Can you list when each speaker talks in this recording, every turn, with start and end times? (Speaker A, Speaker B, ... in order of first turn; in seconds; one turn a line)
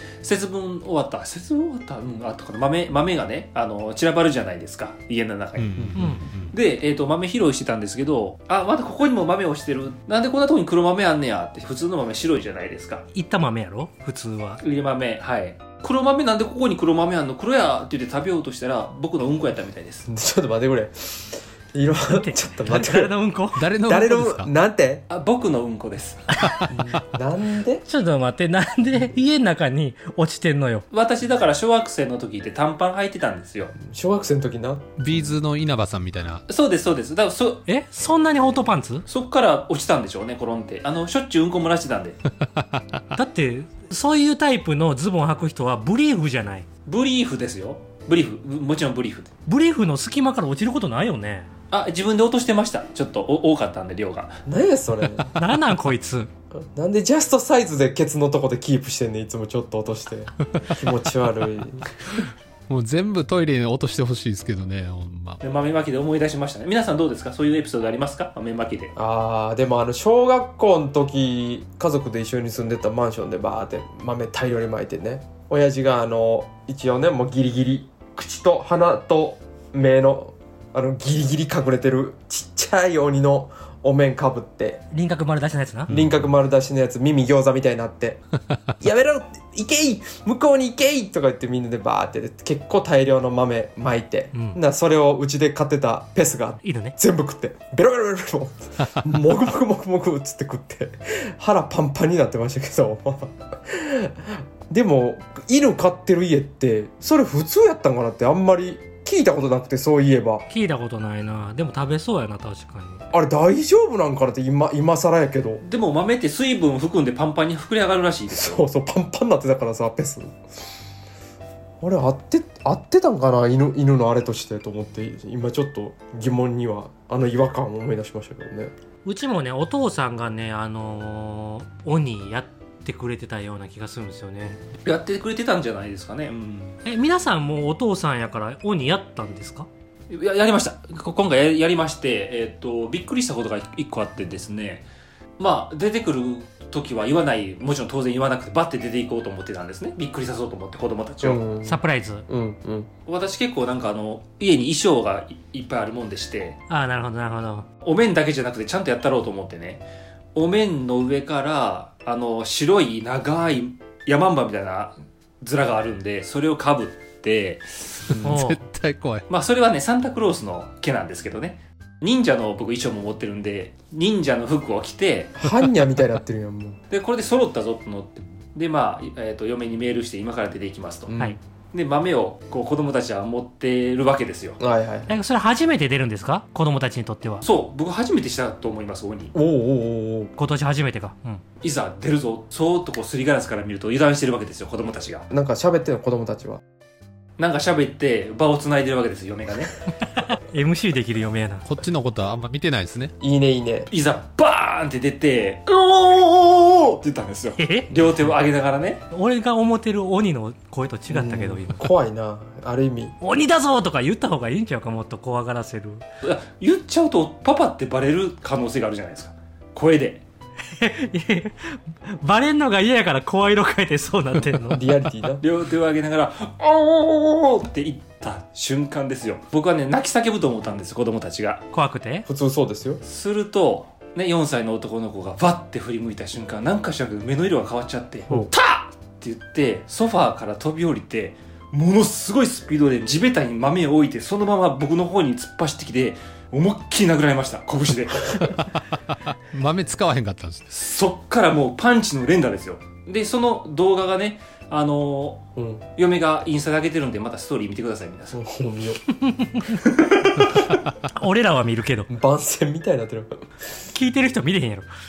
Speaker A: 0.2-13.1
Speaker B: 5.6-6.5
Speaker C: 6.0-6.2
Speaker C: 13.1-14.6
Speaker A: 14.6-20.1
Speaker D: 20.1-23.1
Speaker C: 22.1-23.6
Speaker B: 23.6-24.5
Speaker D: 23.8-25.1
Speaker A: 25.1-26.4
Speaker B: 26.4-27.0
Speaker D: 26.7-27.9
Speaker C: 27.9-30.9
Speaker A: 30.9-33.8
Speaker D: 33.8-35.0
Speaker B: 35.0-36.4
Speaker A: 36.5-37.6
Speaker C: 37.7-39.1
Speaker A: 39.1-42.2
Speaker B: 42.4-43.0
Speaker C: 43.1-46.7
Speaker A: 46.9-49.3
Speaker C: 49.5-51.5
Speaker A: 51.7-54.4
Speaker D: 54.5-55.3
Speaker C: 55.4-56.3
Speaker D: 56.5-61.9
Speaker B: 62.7-65.4
Speaker A: 65.4-68.9
Speaker D: 69.0-84.8
Speaker C: 84.9-85.9
Speaker B: 85.9-86.3
Speaker D: 85.9-88.2
Speaker D: 88.8-110.5
Speaker C: 94.3-94.6
Speaker C: 96.6-97.0
Speaker C: 110.5-113.0
Speaker D: 113.1-115.6
Speaker A: 115.6-118.6
Speaker D: 118.3-120.4
Speaker D: 121.8-128.7
Speaker C: 129.1-134.6
Speaker A: 134.8-136.8
Speaker C: 136.8-139.7
Speaker A: 140.1-144.9
Speaker A: 145.4-151.4
Speaker D: 151.2-152.9
Speaker C: 151.7-152.3
Speaker A: 153.1-156.6
Speaker C: 156.7-157.7
Speaker A: 157.8-168.1
Speaker B: 168.1-169.2
Speaker C: 168.2-168.6
Speaker A: 169.3-175.4
Speaker D: 175.4-176.8
Speaker A: 176.9-181.2
Speaker D: 181.1-181.4
Speaker A: 181.7-184.6
Speaker D: 184.6-185.1
Speaker C: 185.1-187.5
Speaker A: 187.4-189.3
Speaker D: 189.3-190.3
Speaker C: 190.4-191.4
Speaker A: 191.6-195.3
Speaker D: 195.3-196.6
Speaker A: 197.4-199.8
Speaker C: 200.1-201.7
Speaker B: 201.7-203.1
Speaker D: 203.2-203.9
Speaker A: 203.9-209.0
Speaker C: 207.6-207.9
Speaker C: 209.1-211.9
Speaker D: 211.1-213.2
Speaker C: 213.2-216.0
Speaker A: 216.2-220.2
Speaker C: 220.7-224.9
Speaker D: 224.7-225.4
Speaker A: 225.4-231.7
Speaker C: 231.7-232.3
Speaker D: 232.3-233.0
Speaker A: 233.0-248.6
Speaker B: 248.5-250.7
Speaker A: 250.7-258.4
Speaker D: 255.6-255.8
Speaker D: 258.3-259.0
Speaker C: 259.2-259.8
Speaker A: 259.8-260.7
Speaker C: 261.1-262.1
Speaker D: 262.1-263.5
Speaker C: 263.9-264.9